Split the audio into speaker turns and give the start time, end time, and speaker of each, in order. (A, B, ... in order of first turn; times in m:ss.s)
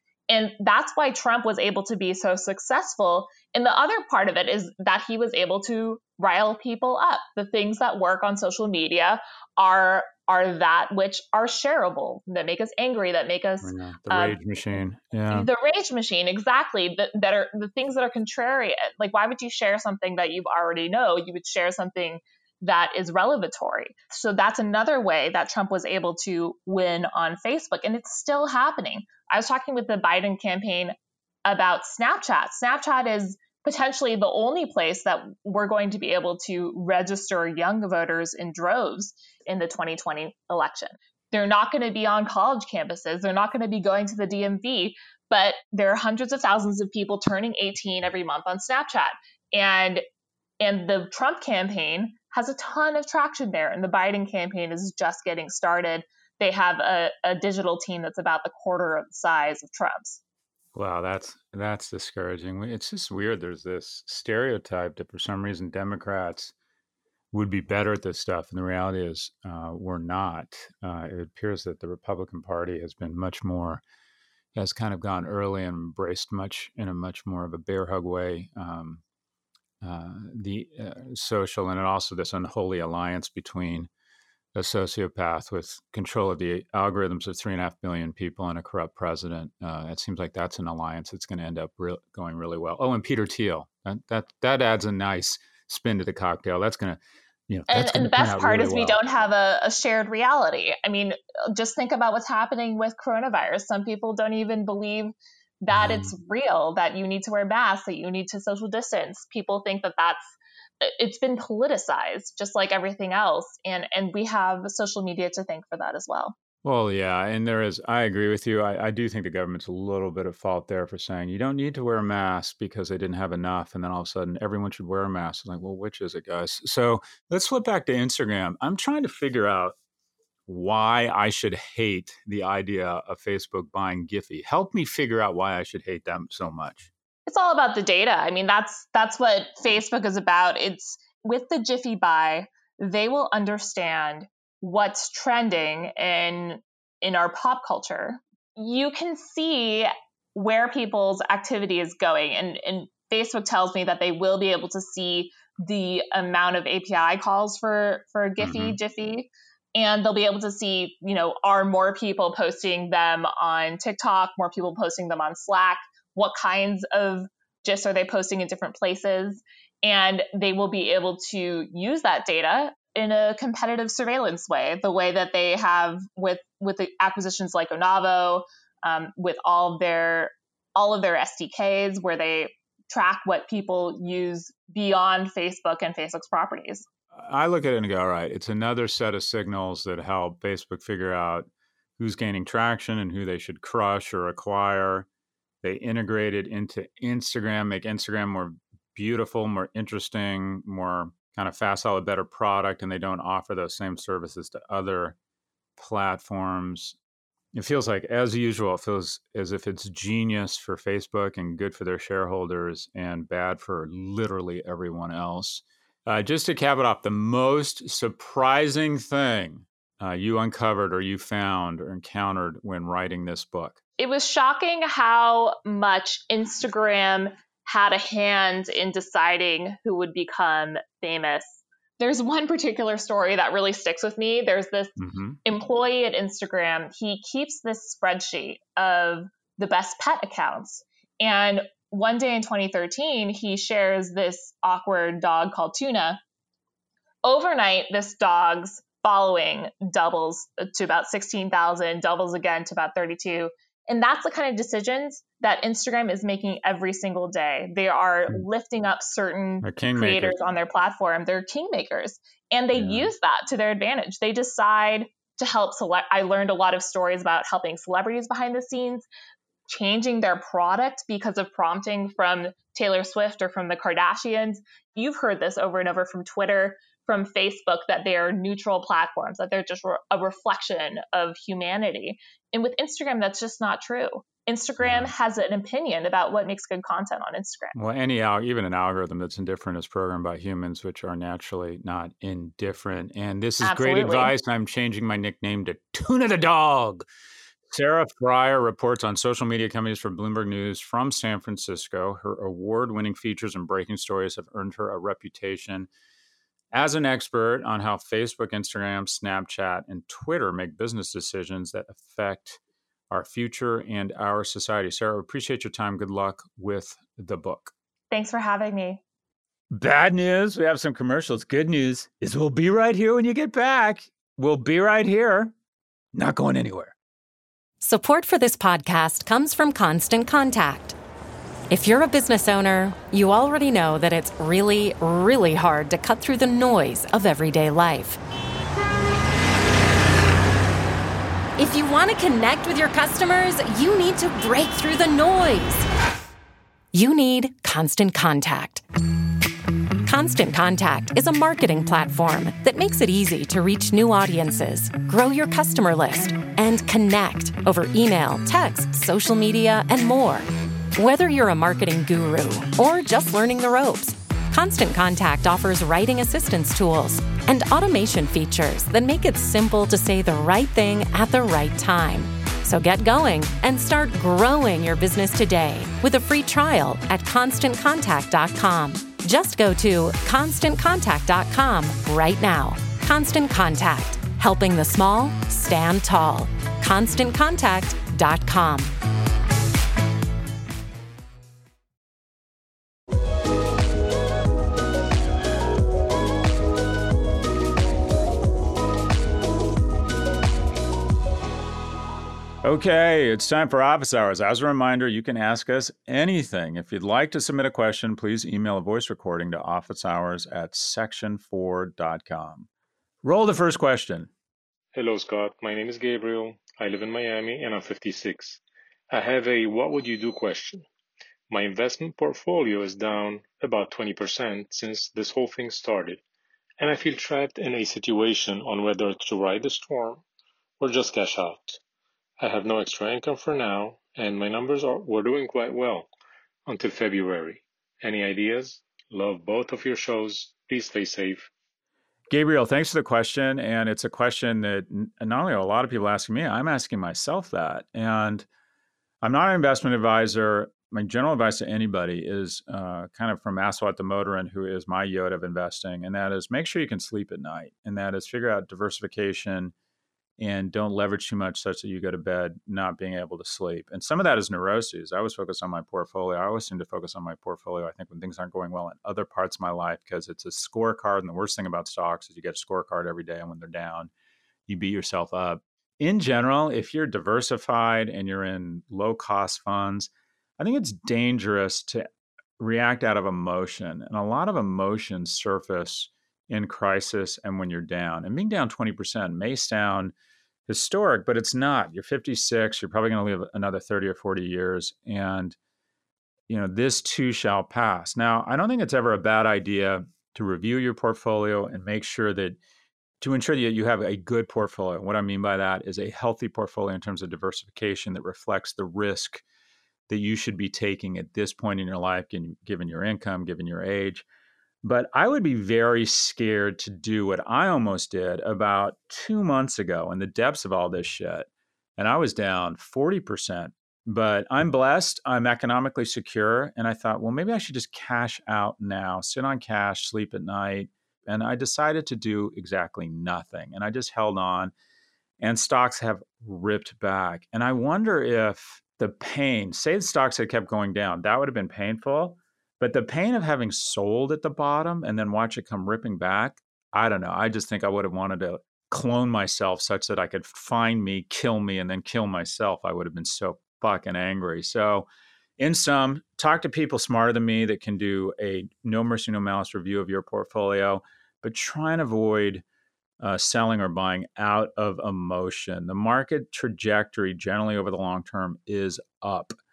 0:00.3-0:14.4 A
0:13.6-0:15.5 B
0:15.3-0:50.0 A
0:50.6-1:00.2 A
1:00.8-1:06.5 B
1:07.3-1:13.8 B
1:14.5-1:19.0 B
1:19.8-1:23.9 B
1:24.5-1:39.0 B
1:37.7-1:50.3 A
1:45.7-1:46.1 B
1:50.8-1:56.4 A
1:56.6-2:09.8 B
2:10.5-2:16.9 B
2:17.3-3:06.8 A
2:38.4-2:38.8 B
3:07.1-3:15.1 B
3:15.6-3:25.2 B
3:25.8-3:27.0 B
3:27.5-3:43.8 B
3:44.0-4:06.2 A
3:55.0-3:55.4 B
4:07.2-4:29.1 A
4:19.6-4:20.4 B
4:22.7-4:23.1 B
4:29.7-4:47.8 A
4:44.8-4:45.1 B
4:47.7-4:57.1 B
4:53.6-4:54.3 A
4:57.7-5:05.9 B
5:06.7-5:12.6 B
5:13.1-5:17.7 B
5:18.1-5:19.0 A
5:19.7-5:25.5 B
5:26.1-5:26.9 B
5:27.8-5:31.0 C
5:31.7-5:38.2 C
5:41.6-5:45.9 C
5:46.9-5:48.8 C
5:50.1-6:28.9 C
6:42.6-6:52.7 B
6:53.2-6:54.3 B
6:55.0-7:00.9 D
7:01.5-7:06.2 D
7:06.8-7:10.2 D
7:10.8-7:11.8 D
7:12.4-7:16.1 D
7:16.7-7:21.5 D
7:22.3-7:28.5 B
7:29.2-7:39.7 B
7:40.4-7:54.1 B
7:54.7-8:02.1 B
8:02.6-8:10.1 B
8:10.7-8:15.6 B
8:16.5-8:22.6 B
8:23.2-8:29.4 B
8:30.1-8:34.2 B
8:34.8-8:54.7 B
8:55.4-9:22.6 B
9:23.2-9:29.6 B